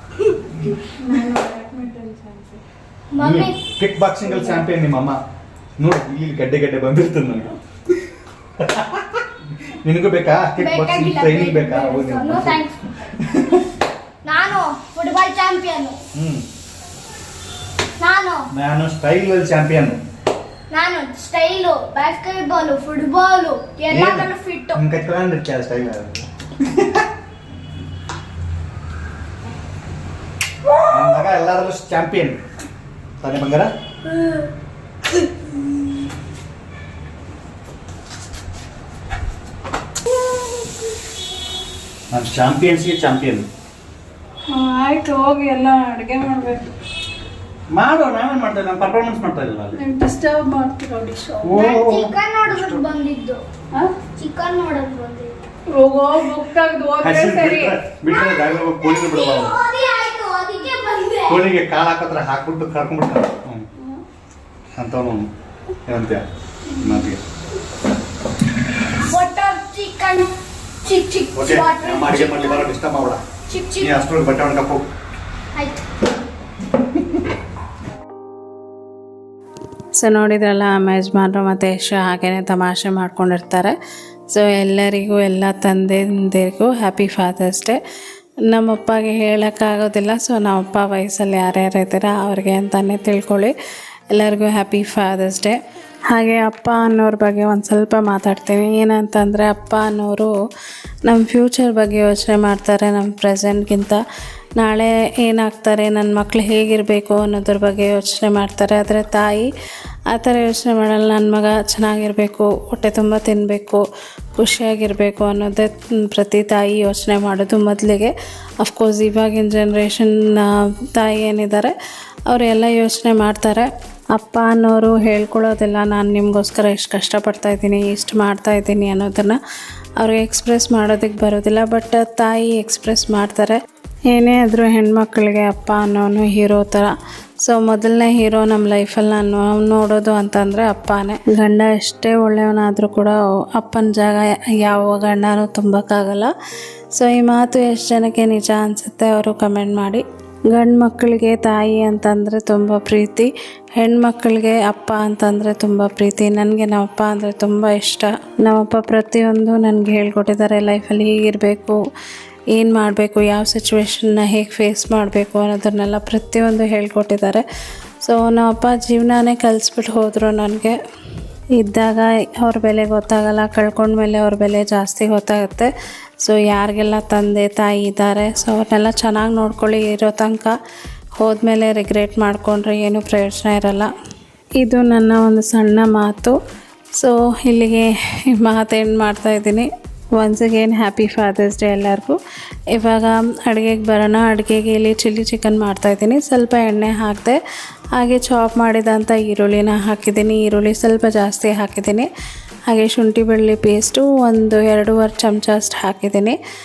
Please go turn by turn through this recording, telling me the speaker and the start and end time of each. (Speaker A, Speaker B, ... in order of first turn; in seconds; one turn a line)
Speaker A: 0.5-0.8
Speaker B: 1.0-2.6
Speaker C: 3.1-3.6
Speaker A: 3.2-5.2
Speaker B: 4.2-4.6
Speaker A: 5.8-12.6
Speaker C: 10.6-13.6
Speaker A: 13.2-13.7
Speaker C: 14.2-16.0
Speaker A: 16.1-16.5
Speaker C: 18.0-18.5
Speaker A: 18.5-20.0
Speaker C: 20.7-24.8
Speaker A: 23.9-27.1
Speaker A: 30.9-32.4
Speaker A: 33.2-33.7
Speaker A: 42.1-43.5
Speaker B: 44.5-46.7
Speaker A: 47.7-49.8
Speaker B: 49.8-51.4
Speaker C: 51.3-53.4
Speaker A: 51.4-52.8
Speaker C: 54.1-55.3
Speaker B: 55.8-57.8
Speaker A: 57.0-59.6
Speaker C: 58.1-61.4
Speaker A: 61.3-63.7
Speaker A: 64.8-65.3
Speaker A: 65.8-66.2
Speaker C: 66.7-67.0
Speaker A: 66.8-67.2
Speaker C: 68.9-70.3
Speaker C: 70.8-72.7
Speaker A: 71.3-73.2
Speaker C: 73.5-74.0
Speaker A: 73.8-74.8
Speaker C: 75.5-75.8
Speaker B: 80.0-83.8
Speaker B: 84.3-87.8
Speaker B: 88.5-93.5
Speaker B: 94.1-95.6
Speaker B: 96.1-100.3
Speaker B: 101.1-104.0
Speaker B: 104.6-109.5
Speaker B: 110.1-113.8
Speaker B: 114.4-121.7
Speaker B: 122.3-129.4
Speaker B: 130.0-133.6
Speaker B: 134.1-136.9
Speaker B: 137.4-146.3
Speaker B: 147.0-161.8
Speaker B: 162.5-167.4
Speaker B: 168.0-170.8
Speaker B: 171.6-175.7
Speaker B: 176.2-180.6
Speaker B: 181.2-183.9
Speaker B: 184.6-186.4
Speaker B: 187.0-192.2
Speaker B: 192.7-197.4
Speaker B: 197.9-202.1
Speaker B: 202.7-206.4